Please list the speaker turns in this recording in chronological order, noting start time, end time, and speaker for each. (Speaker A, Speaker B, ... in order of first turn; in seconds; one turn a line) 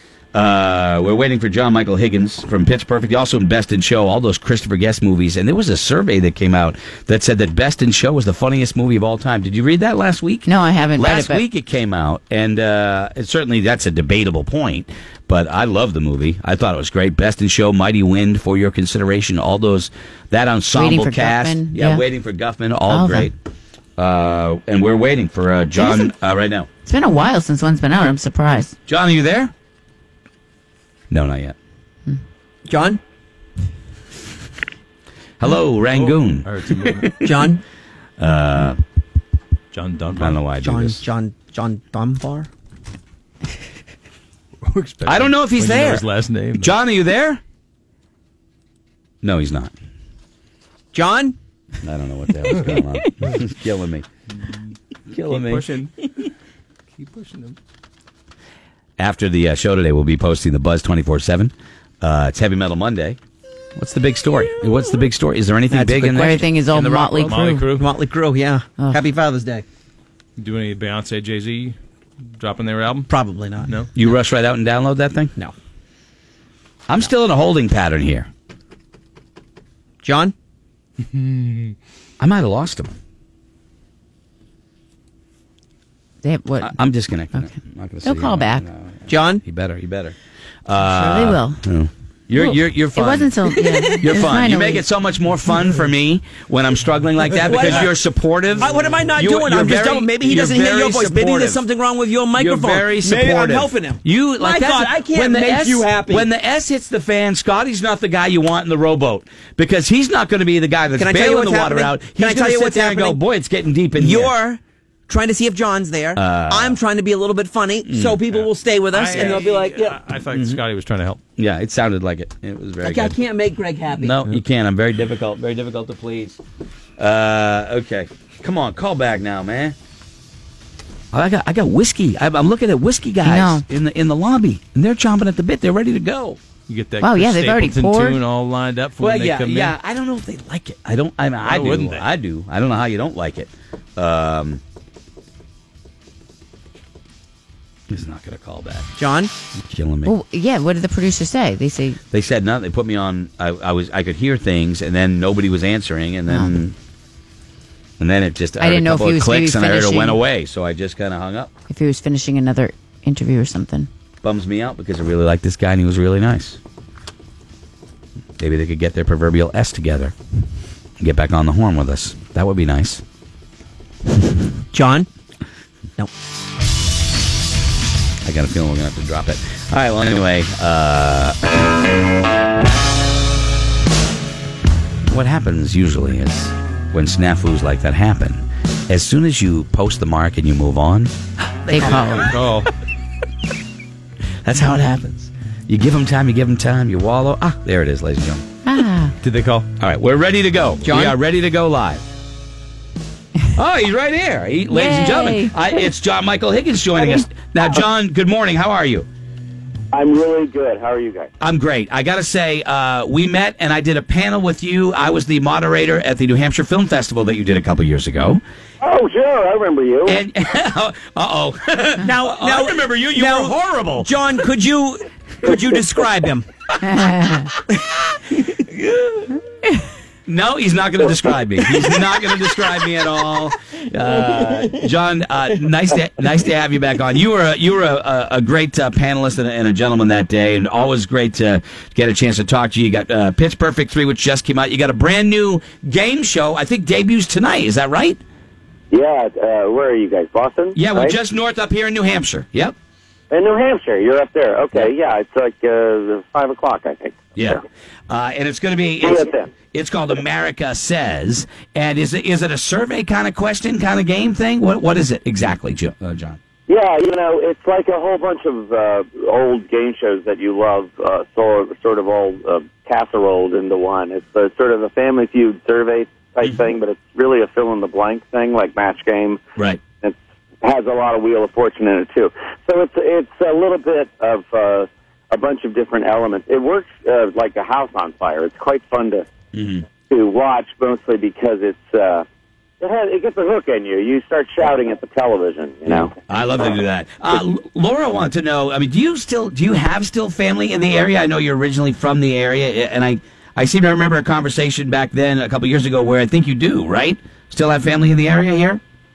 Speaker A: 0.3-23.3
Speaker B: 10.5-11.4
Speaker B: 20.7-22.1
Speaker B: 22.9-23.3
Speaker A: 24.0-26.7
Speaker B: 26.9-28.8
Speaker A: 28.9-29.5
Speaker A: 31.1-31.6
Speaker C: 32.7-33.0
Speaker A: 35.4-37.3
Speaker D: 35.9-37.1
Speaker C: 37.2-37.6
Speaker A: 38.2-38.8
Speaker D: 39.7-40.4
Speaker A: 40.2-41.0
Speaker C: 40.6-42.5
Speaker D: 44.6-46.7
Speaker A: 45.0-46.1
Speaker A: 46.6-47.4
Speaker A: 49.2-49.7
Speaker C: 50.9-51.4
Speaker A: 51.8-54.0
Speaker A: 55.1-55.6
Speaker D: 55.2-55.9
Speaker D: 57.0-57.6
Speaker A: 59.0-63.2
Speaker A: 63.8-67.4
Speaker C: 65.7-66.4
Speaker B: 66.2-67.7
Speaker D: 67.2-67.9
Speaker C: 67.8-69.7
Speaker D: 70.4-71.8
Speaker D: 72.4-73.1
Speaker C: 73.1-73.7
Speaker A: 74.0-75.3
Speaker A: 76.9-78.3
Speaker C: 80.0-80.3
Speaker D: 81.2-81.7
Speaker A: 82.2-83.0
Speaker B: 86.2-86.8
Speaker A: 86.6-93.3
Speaker B: 88.0-88.7
Speaker C: 89.1-89.4
Speaker B: 90.8-91.6
Speaker B: 92.4-94.9
Speaker C: 93.5-94.1
Speaker A: 94.0-101.6
Speaker C: 97.3-97.9
Speaker C: 98.6-106.3
Speaker A: 102.4-114.3
Speaker C: 111.0-113.2
Speaker C: 114.0-120.0
Speaker A: 116.2-116.8
Speaker A: 117.8-118.2
Speaker D: 118.3-121.2
Speaker A: 120.3-120.6
Speaker A: 121.4-123.2
Speaker C: 122.8-124.2
Speaker A: 124.0-126.4
Speaker A: 127.0-129.8
Speaker A: 131.1-136.4
Speaker B: 133.2-133.7
Speaker D: 136.7-139.8
Speaker B: 137.0-138.2
Speaker A: 139.0-144.6
Speaker D: 141.4-142.1
Speaker A: 147.9-148.9
Speaker C: 149.0-149.3
Speaker A: 149.7-150.2
Speaker B: 150.1-152.0
Speaker A: 152.1-156.8
Speaker B: 156.3-156.5
Speaker A: 158.0-161.5
Speaker B: 158.6-160.2
Speaker B: 161.7-163.9
Speaker A: 164.2-166.6
Speaker A: 168.4-170.2
Speaker A: 171.0-173.0
Speaker C: 174.7-175.1
Speaker A: 178.2-181.4
Speaker A: 185.1-191.1
Speaker B: 191.7-192.4
Speaker D: 192.3-192.7
Speaker A: 194.4-198.4
Speaker B: 198.7-199.2
Speaker D: 199.2-199.7
Speaker A: 199.8-202.0
Speaker C: 200.8-201.2
Speaker A: 203.6-209.1
Speaker B: 204.7-205.8
Speaker E: 209.9-211.3
Speaker A: 211.4-218.4
Speaker E: 218.8-220.2
Speaker A: 220.1-224.2
Speaker C: 222.0-226.5
Speaker A: 230.3-248.2
Speaker E: 248.9-251.2
Speaker A: 250.8-252.8
Speaker E: 253.3-257.6
Speaker A: 257.4-266.4
Speaker E: 259.0-259.5
Speaker E: 266.7-279.4
Speaker E: 280.0-289.3
Speaker A: 289.5-289.9
Speaker E: 290.1-292.2
Speaker E: 292.8-296.1
Speaker A: 296.3-308.8